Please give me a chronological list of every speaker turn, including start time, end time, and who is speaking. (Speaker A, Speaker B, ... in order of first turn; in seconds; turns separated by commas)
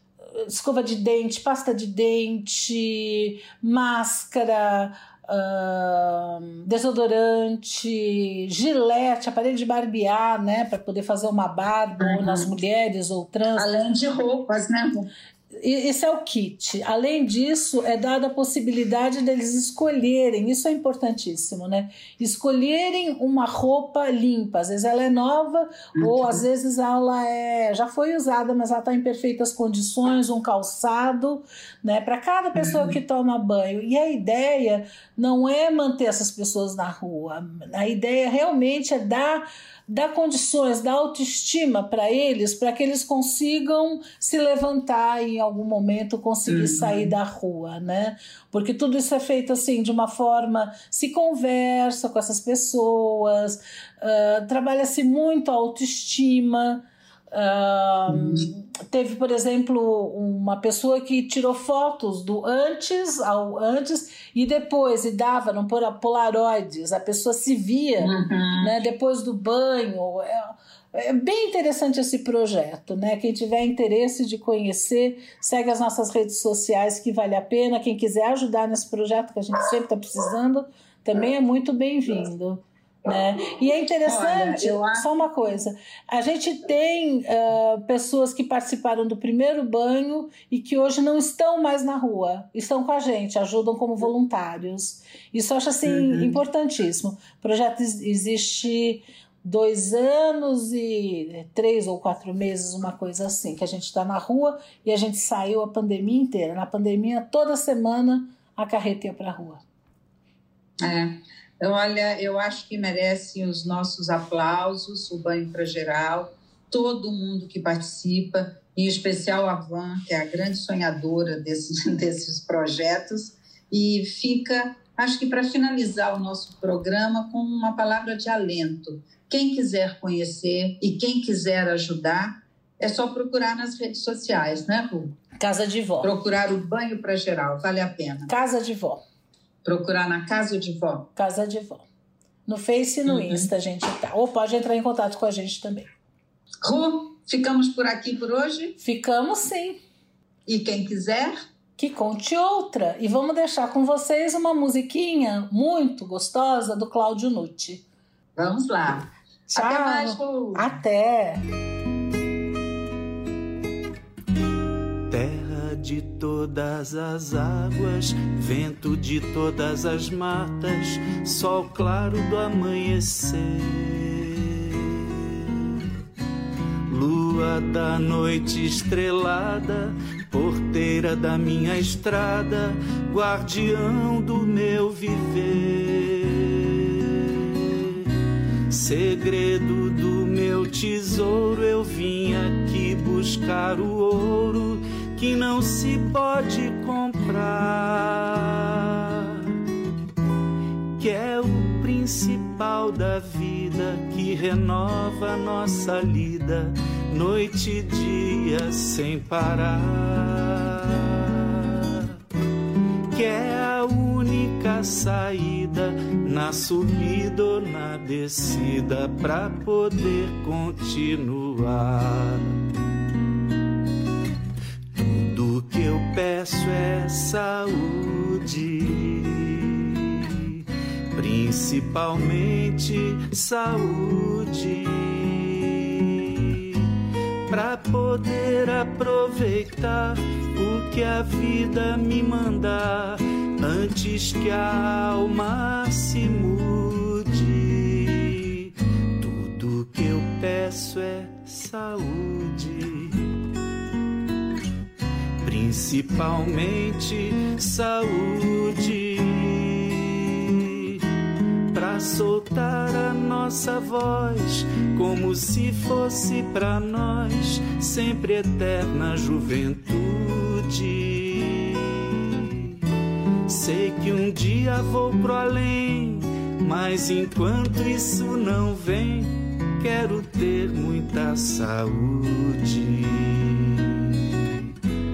Speaker A: 0.4-13.7, Speaker B: 12.0-12.5, Speaker B: 13.6-15.1, Speaker A: 15.6-109.6, Speaker B: 26.0-26.4, Speaker B: 32.5-32.9, Speaker B: 46.5-47.1, Speaker B: 58.1-58.5, Speaker B: 68.0-68.7, Speaker B: 84.0-85.1, Speaker B: 95.8-96.4, Speaker B: 110.8-135.1, Speaker A: 135.4-136.1, Speaker B: 136.0-138.3, Speaker A: 138.3-139.0, Speaker B: 139.6-141.1, Speaker A: 141.2-141.8, Speaker A: 142.5-145.9, Speaker B: 143.1-143.5, Speaker B: 146.6-148.8, Speaker A: 148.8-149.8, Speaker B: 150.5-151.3, Speaker A: 151.8-157.8, Speaker B: 158.3-160.7, Speaker A: 159.5-161.4, Speaker C: 165.1-175.6, Speaker C: 176.9-188.1, Speaker C: 188.7-199.5, Speaker C: 201.0-212.1, Speaker C: 213.1-222.6, Speaker C: 224.9-230.6, Speaker C: 231.1-236.9, Speaker C: 237.5-253.2, Speaker C: 255.4-261.0, Speaker C: 261.7-272.7, Speaker C: 273.4-284.6